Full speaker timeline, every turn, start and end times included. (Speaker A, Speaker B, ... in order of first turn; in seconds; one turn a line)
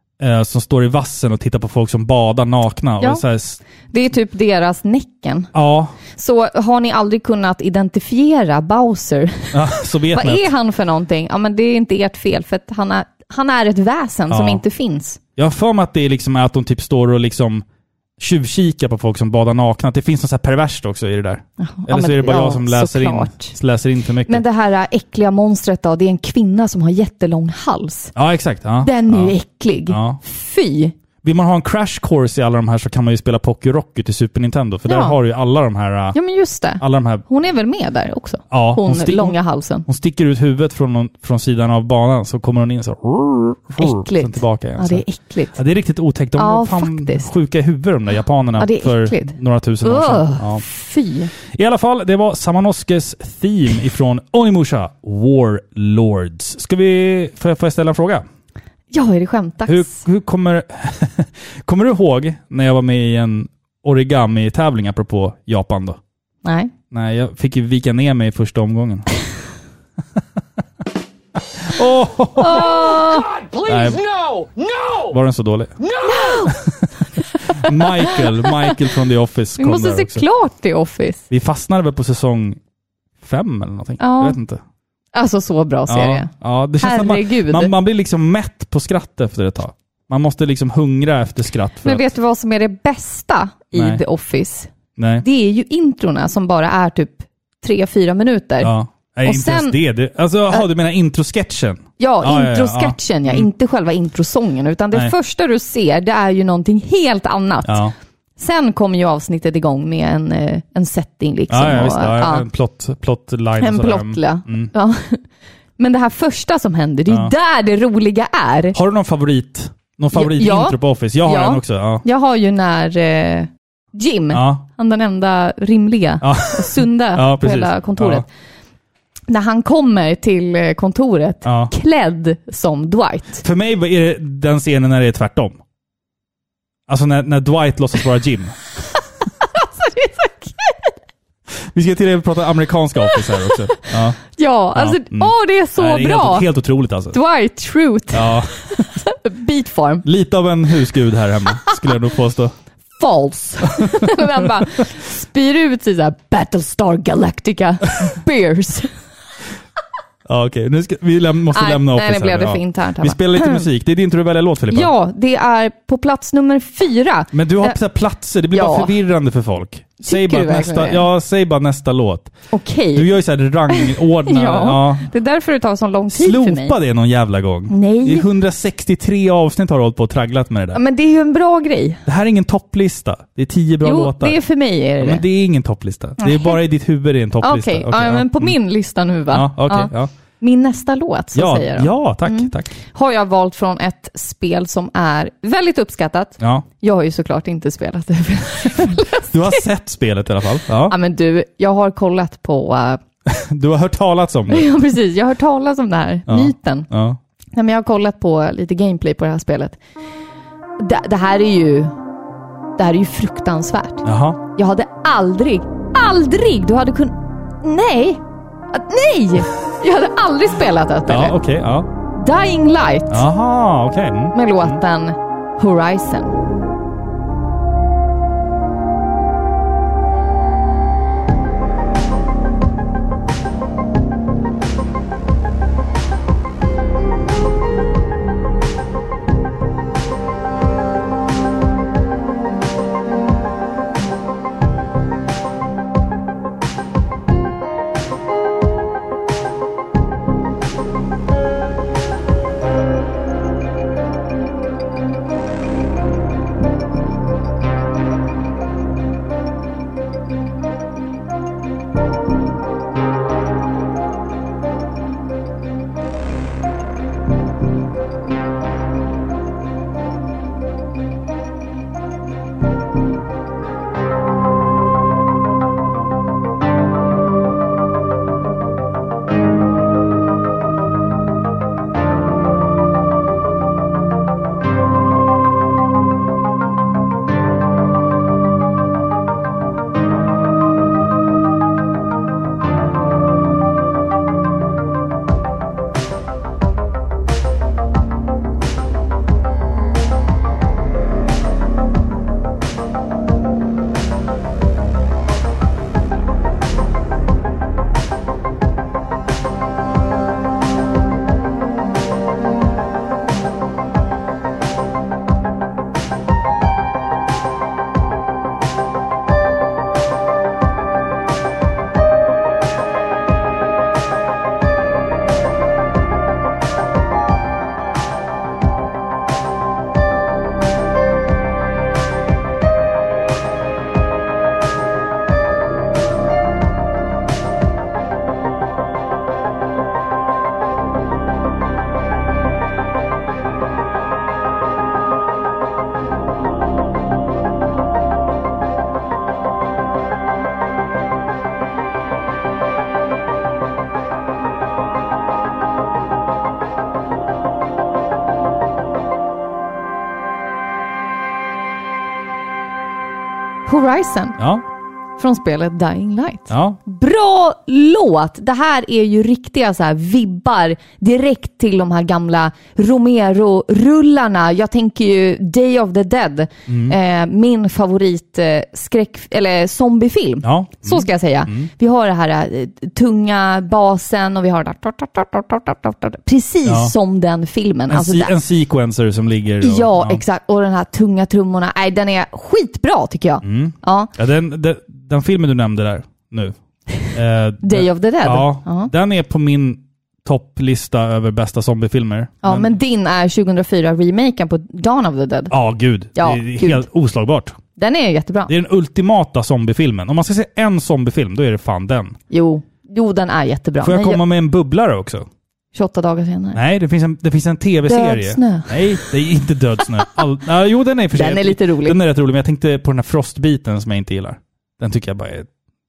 Speaker A: 0.2-3.6
Speaker B: 3.9-5.5
Speaker A: 5.5-6.0
Speaker B: 6.1-9.6
Speaker A: 9.5-10.4
Speaker B: 10.1-15.2
Speaker A: 14.3-14.6
Speaker A: 15.3-17.6
Speaker A: 18.2-24.4
Speaker B: 21.6-23.6
Speaker B: 24.3-28.1
Speaker A: 28.1-29.3
Speaker B: 28.8-30.9
Speaker A: 29.9-30.2
Speaker A: 31.2-36.1
Speaker B: 34.9-35.1
Speaker B: 36.1-39.9
Speaker A: 36.8-37.2
Speaker A: 38.5-50.6
Speaker B: 43.8-45.6
Speaker B: 46.4-47.3
Speaker B: 48.6-51.3
Speaker A: 51.4-58.2
Speaker B: 58.9-60.0
Speaker A: 59.6-66.0
Speaker B: 66.4-66.7
Speaker A: 66.9-69.1
Speaker A: 71.6-72.7
Speaker B: 72.4-73.3
Speaker C: 72.6-75.2
Speaker A: 73.7-74.0
Speaker A: 75.1-75.7
Speaker C: 75.8-76.5
Speaker B: 76.0-76.5
Speaker A: 76.6-76.9
Speaker B: 77.1-78.5
Speaker A: 77.6-80.2
Speaker B: 79.6-81.2
Speaker A: 81.3-82.6
Speaker A: 83.2-84.6
Speaker B: 84.0-84.4
Speaker B: 85.1-87.7
Speaker A: 85.9-92.0
Speaker B: 91.8-94.7
Speaker A: 93.7-94.0
Speaker A: 95.0-95.2
Speaker B: 95.2-98.7
Speaker A: 98.6-103.5
Speaker B: 99.2-99.8
Speaker B: 102.0-107.8
Speaker A: 107.6-107.9
Speaker B: 108.4-112.5
Speaker A: 111.5-114.7
Speaker B: 113.6-115.2
Speaker B: 115.8-118.8
Speaker A: 118.7-122.0
Speaker B: 120.1-128.2
Speaker A: 124.3-124.6
Speaker A: 126.2-128.2
Speaker B: 129.3-133.4
Speaker A: 131.4-131.7
Speaker A: 133.4-135.6
Speaker A: 136.9-138.6
Speaker B: 139.4-140.9
Speaker A: 141.7-144.2
Speaker B: 144.3-146.5
Speaker A: 144.7-147.2
Speaker B: 147.1-150.0
Speaker A: 148.1-149.0
Speaker A: 150.0-152.5
Speaker B: 152.9-158.9
Speaker A: 153.8-154.1
Speaker A: 160.2-164.9
Speaker B: 161.5-163.7
Speaker B: 164.7-167.8
Speaker A: 167.3-172.3
Speaker B: 168.5-168.9
Speaker B: 170.0-171.0
Speaker B: 172.5-173.1
Speaker A: 172.9-175.1
Speaker B: 173.7-176.8
Speaker A: 176.1-180.8
Speaker B: 177.7-178.3
Speaker B: 180.7-182.0
Speaker A: 182.1-184.4
Speaker B: 183.8-185.2
Speaker A: 185.0-188.6
Speaker B: 186.2-186.6
Speaker B: 187.4-199.6
Speaker A: 189.3-190.1
Speaker A: 191.3-192.7
Speaker A: 196.4-196.7
Speaker A: 198.8-200.9
Speaker B: 200.9-203.0
Speaker A: 203.3-204.7
Speaker B: 204.5-206.9
Speaker A: 206.3-207.2
Speaker B: 207.5-209.8
Speaker B: 210.8-211.9
Speaker B: 212.8-214.0
Speaker A: 214.0-214.4
Speaker B: 214.5-221.4
Speaker A: 221.1-221.9
Speaker B: 222.1-223.2
Speaker A: 223.1-224.8
Speaker B: 224.3-226.4
Speaker B: 363.7-364.4
Speaker A: 364.4-364.6
Speaker B: 365.2-388.3
Speaker A: 366.5-366.8
Speaker A: 376.7-376.9
Speaker A: 380.4-381.7
Speaker A: 386.6-386.9
Speaker A: 387.9-390.2
Speaker B: 389.6-394.1
Speaker A: 393.4-396.5
Speaker A: 397.1-402.7
Speaker B: 397.6-398.9
Speaker B: 402.4-405.5
Speaker A: 405.5-407.6
Speaker B: 406.1-406.8
Speaker B: 407.8-408.5
Speaker A: 408.5-412.2
Speaker B: 412.3-414.2
Speaker A: 413.8-415.2
Speaker B: 415.7-416.6
Speaker A: 416.5-425.5
Speaker B: 417.9-419.0
Speaker B: 421.1-422.0